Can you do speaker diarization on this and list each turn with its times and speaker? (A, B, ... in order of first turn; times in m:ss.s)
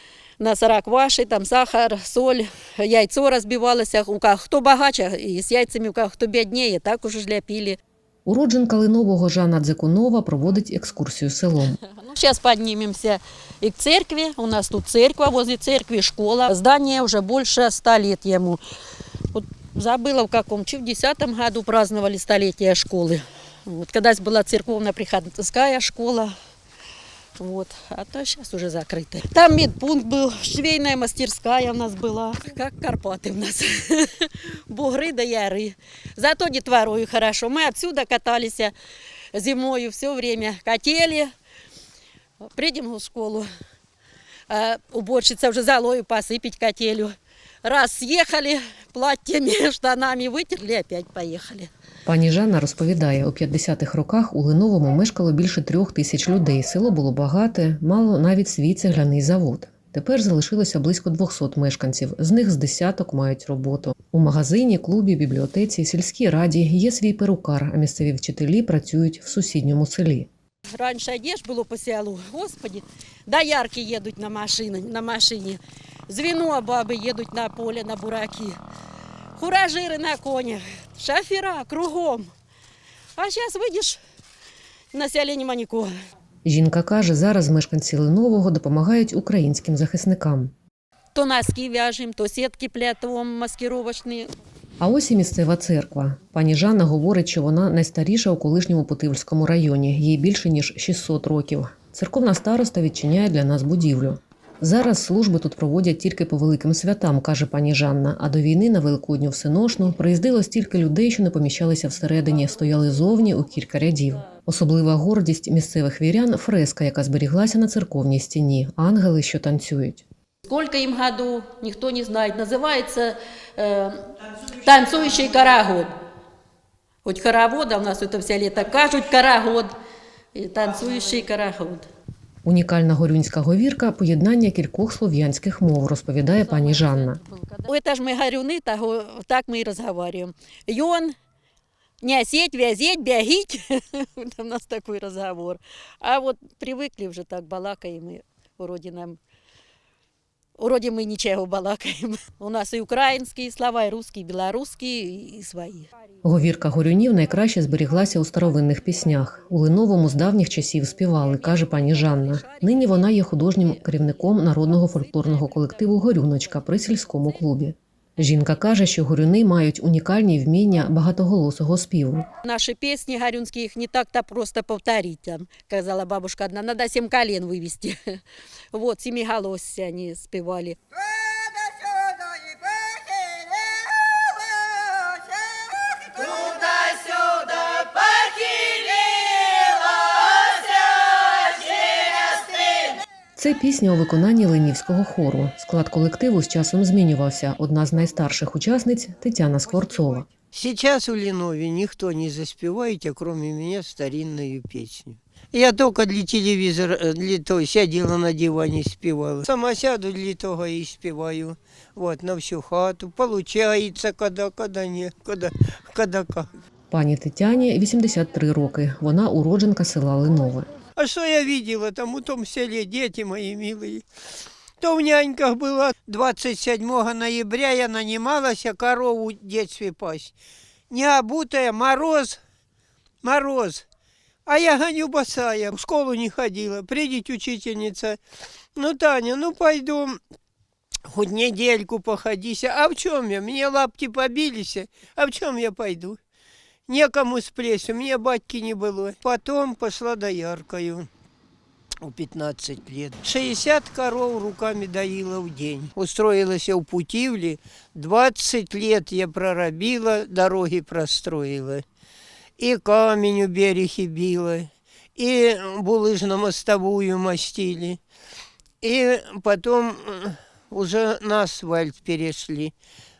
0:00.4-0:07.8 A
0:08.2-0:11.8 B
0:11.9-0:18.6 A
0:19.3-0:26.3 A
0:27.4-0:38.7 A
0:39.3-0:41.3 A
0:42.5-0:43.5 A
0:44.5-0:51.7 A
0:52.0-1:10.3 B
1:10.7-1:18.6 A
1:19.4-1:22.3 A
1:23.2-1:24.0 A
1:24.9-1:25.9 A
1:26.4-1:30.5 B
1:31.1-1:34.3 A
1:34.8-2:00.0 B
2:00.4-2:04.0 A
2:04.6-2:05.9 A
2:07.0-2:09.7 A
2:10.3-2:11.9 A
2:12.4-2:17.2 B
2:16.3-2:21.1 A
2:22.0-2:29.2 A
2:30.6-2:35.9 A
2:36.2-2:52.3 B
2:41.6-2:44.2 A
2:52.4-2:58.2 A
2:58.7-3:00.8 A
3:13.4-3:20.3 B
3:20.5-3:36.5 C
3:36.9-3:40.7 B
3:41.0-3:44.0 C
3:44.8-3:50.3 C
3:50.9-3:52.4 C
3:53.2-3:53.8 C
3:54.5-3:58.2 C
3:58.8-4:00.2 C
4:01.1-4:06.2 C
4:06.9-4:11.1 C
4:12.0-4:21.8 C
4:22.6-4:28.0 C
4:28.8-4:32.7 C